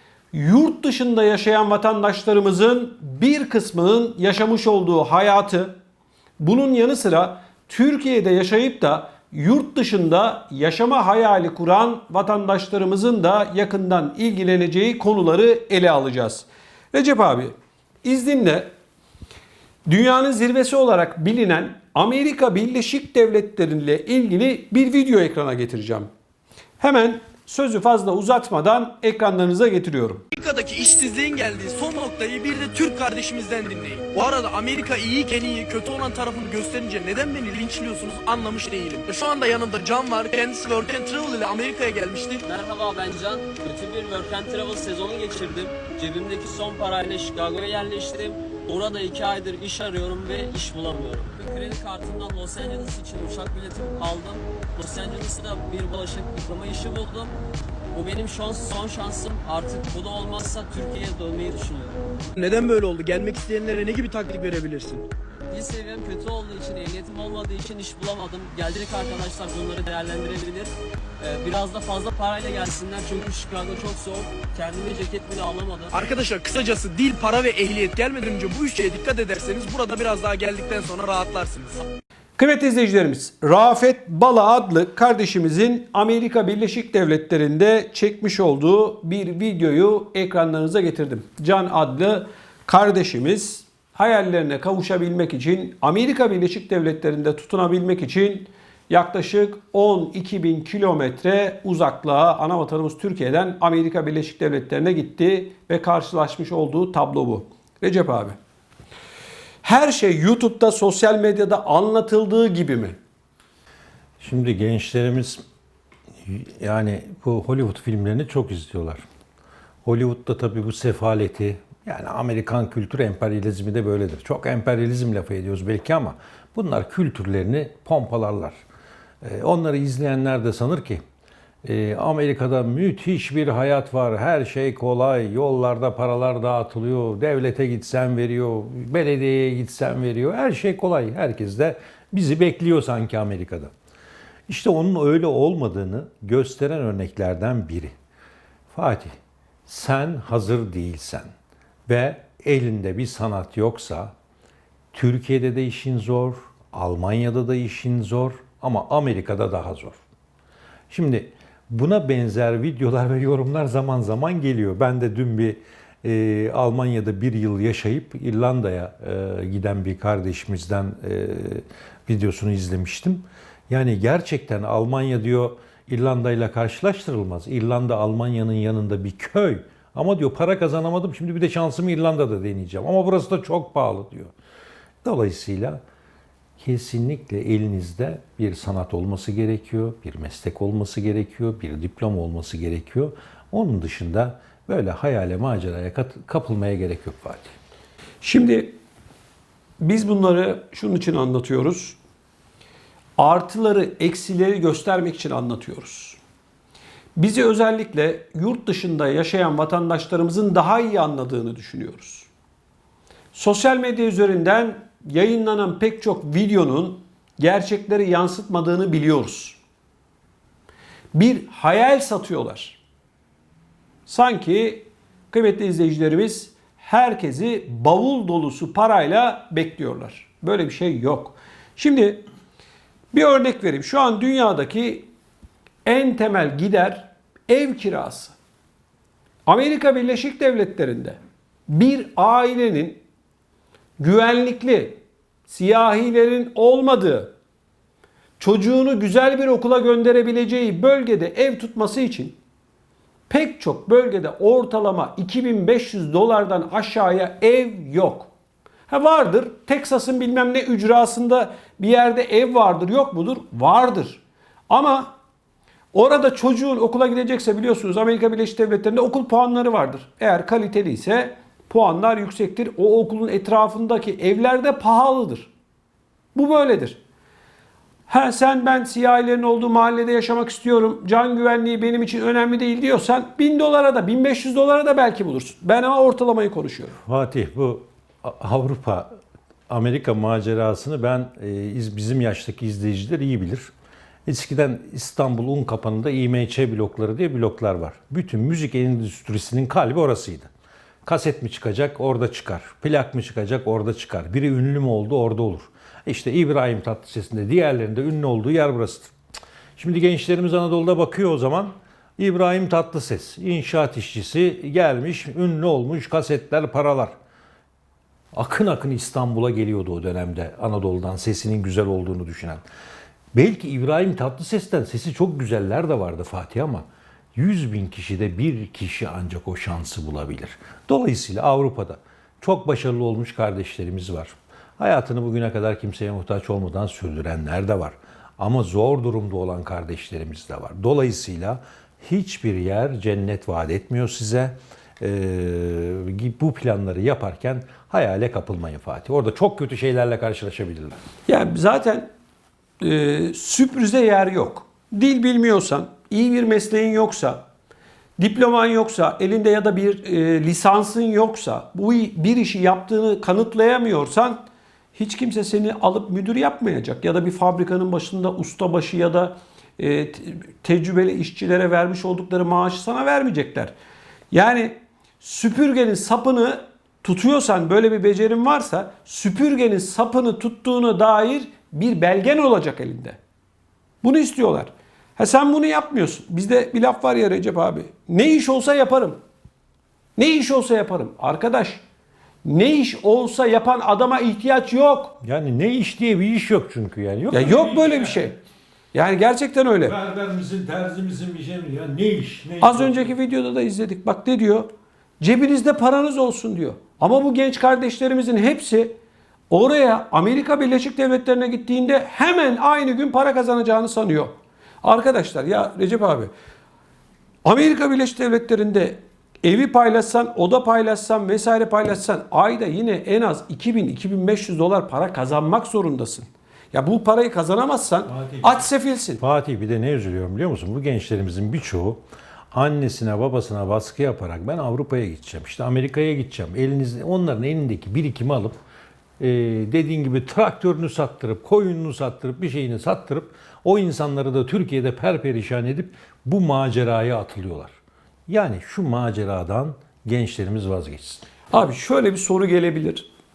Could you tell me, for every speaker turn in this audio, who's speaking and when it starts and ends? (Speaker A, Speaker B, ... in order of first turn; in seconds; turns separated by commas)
Speaker A: 0.3-5.8, Speaker A: 6.4-18.7, Speaker A: 19.9-26.1, Speaker A: 26.8-30.2, Speaker B: 30.3-42.4, Speaker C: 42.4-57.3, Speaker C: 57.9-62.0, Speaker B: 62.4-65.1, Speaker C: 65.5-75.9, Speaker B: 75.9-81.8, Speaker A: 82.4-108.4, Speaker A: 109.6-113.0, Speaker D: 114.2-115.4, Speaker D: 116.3-119.0, Speaker D: 119.8-128.6, Speaker D: 129.2-131.0, Speaker D: 131.6-143.7, Speaker D: 144.5-147.9, Speaker D: 148.7-151.3, Speaker D: 151.9-154.1, Speaker D: 154.9-160.0, Speaker D: 160.9-184.3, Speaker D: 185.0-185.8, Speaker D: 186.6-197.5, Speaker A: 198.2-198.8, Speaker A: 199.8-202.0, Speaker A: 203.2-206.2, Speaker A: 207.2-212.3, Speaker A: 213.3-219.6, Speaker A: 221.1-222.8, Speaker A: 224.1-232.2, Speaker A: 233.1-235.1, Speaker A: 235.8-238.3, Speaker A: 239.5-243.0, Speaker A: 244.0-247.3, Speaker A: 248.4-252.4, Speaker A: 253.3-258.3, Speaker A: 258.9-265.1, Speaker A: 265.9-275.5, Speaker A: 276.4-277.0, Speaker A: 278.1-287.0, Speaker D: 287.1-289.1, Speaker D: 289.7-293.7, Speaker D: 294.3-300.5, Speaker D: 301.1-309.1, Speaker D: 309.8-317.1, Speaker D: 318.3-322.6, Speaker D: 323.3-351.0, Speaker A: 351.3-352.1, Speaker A: 352.8-357.5, Speaker A: 358.2-364.4, Speaker A: 364.9-373.7, Speaker A: 374.3-383.2, Speaker A: 384.0-389.2, Speaker A: 390.2-391.8, Speaker A: 392.4-395.1, Speaker D: 395.2-398.3, Speaker A: 397.3-398.4, Speaker A: 398.9-399.9, Speaker D: 399.9-403.1, Speaker A: 402.6-404.7, Speaker A: 405.2-409.0, Speaker A: 409.5-416.3, Speaker A: 417.4-429.2, Speaker D: 428.1-428.6, Speaker D: 429.2-432.0, Speaker D: 432.5-438.6, Speaker D: 439.2-447.8, Speaker D: 448.3-451.2, Speaker A: 451.5-453.1